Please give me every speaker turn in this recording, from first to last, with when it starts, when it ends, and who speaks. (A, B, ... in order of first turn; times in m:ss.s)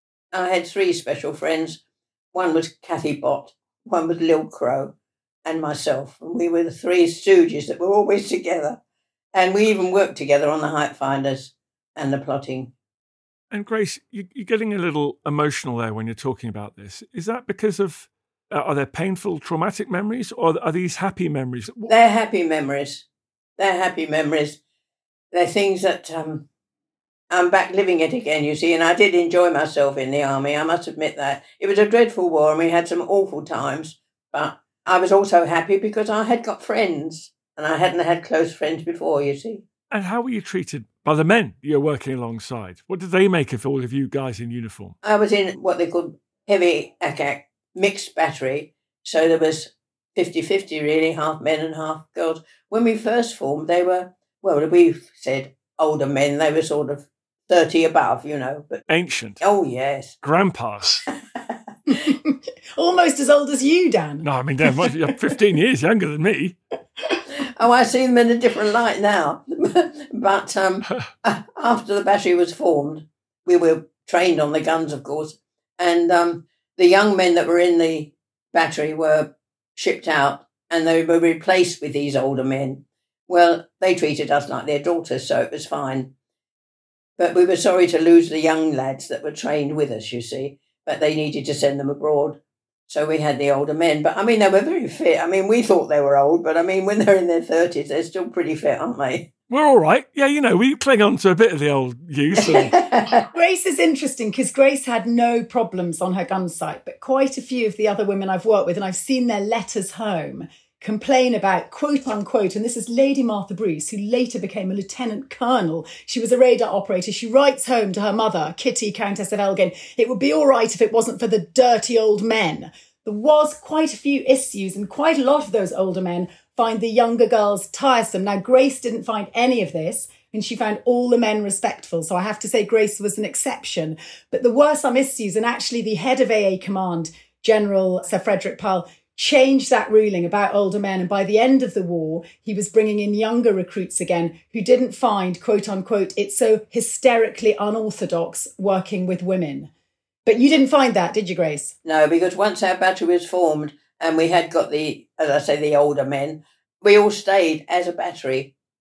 0:00.3-0:01.8 A
0:02.3-0:04.9 A
0:05.4-0:08.8 A
0:09.3-0:12.7 A
0:13.5-0:21.9 B
0:21.9-0:23.0 A
0:23.6-0:24.6 A
0:25.3-0:26.4 A
0:27.3-0:39.6 A
0:39.9-0:44.9 B
0:45.0-0:58.8 A
0:58.9-0:59.4 B
0:59.4-1:00.1 A
1:00.2-1:01.0 B
1:01.9-1:04.2 C
1:04.2-1:06.6 B
1:07.4-1:26.1 A
1:27.2-1:32.4 A
1:32.9-1:39.3 A
1:39.5-1:42.8 B
1:42.4-1:43.2 A
1:43.3-2:29.7 C
2:30.2-2:31.7 C
2:31.8-2:38.5 A